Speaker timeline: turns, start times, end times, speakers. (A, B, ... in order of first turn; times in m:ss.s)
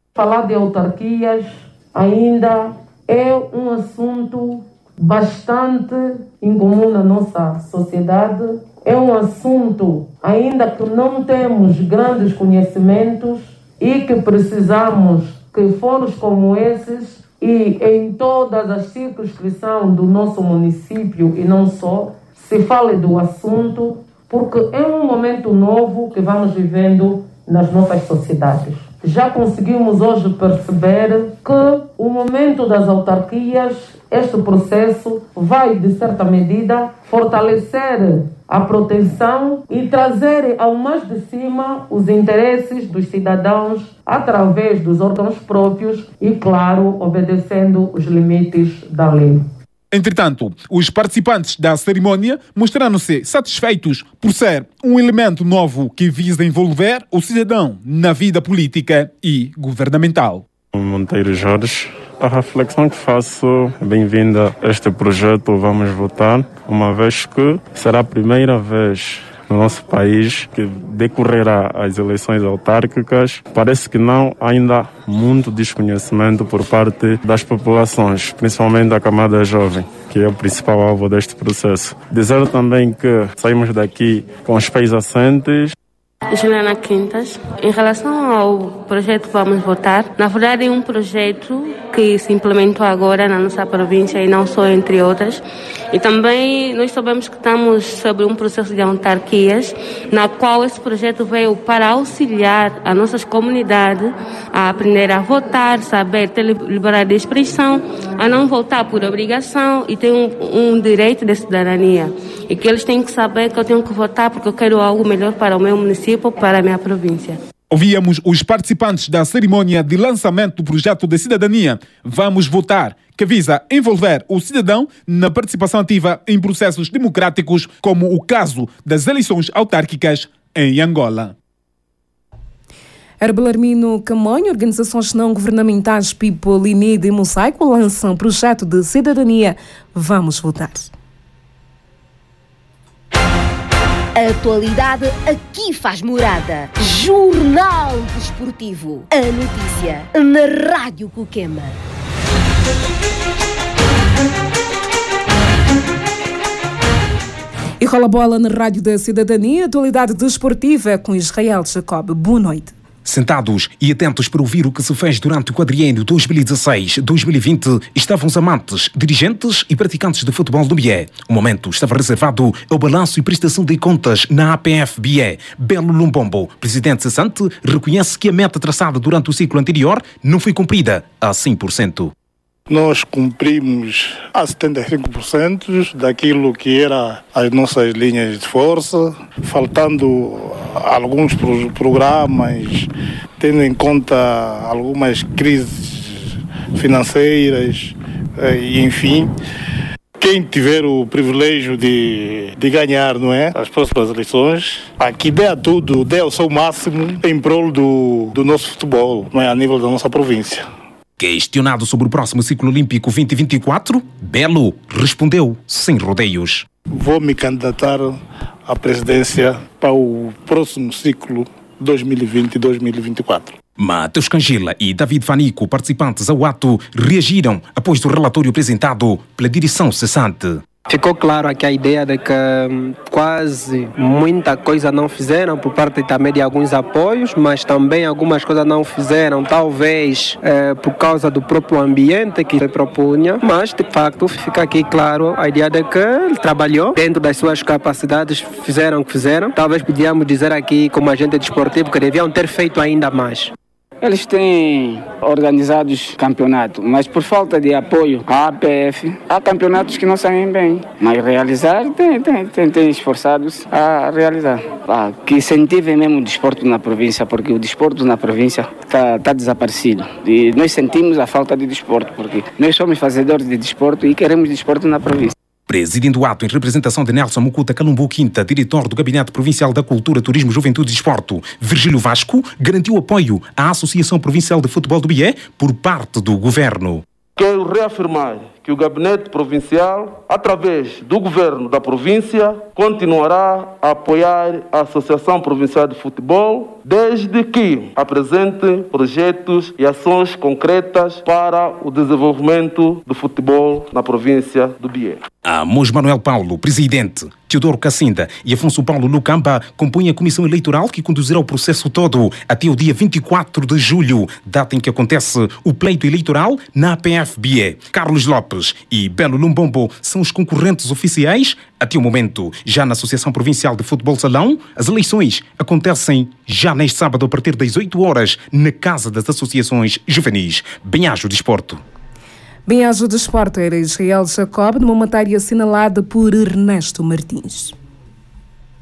0:00.2-0:49.4 A
0:49.9-1:00.4 B
1:00.7-1:25.8 C
1:26.3-1:57.4 D
1:57.7-2:11.3 B
2:13.2-2:20.9 E
2:24.2-2:31.8 F
2:37.8-2:42.7 E
2:43.0-3:02.1 G
3:02.7-3:19.3 H
3:20.2-3:30.6 H
3:31.2-3:36.7 G
3:36.9-3:43.6 H
3:43.8-3:50.6 G
3:50.9-4:13.5 I
4:14.0-4:35.3 J
4:35.7-4:47.0 G
4:47.4-5:05.2 K
5:05.4-5:31.8 G
5:32.7-5:37.7 E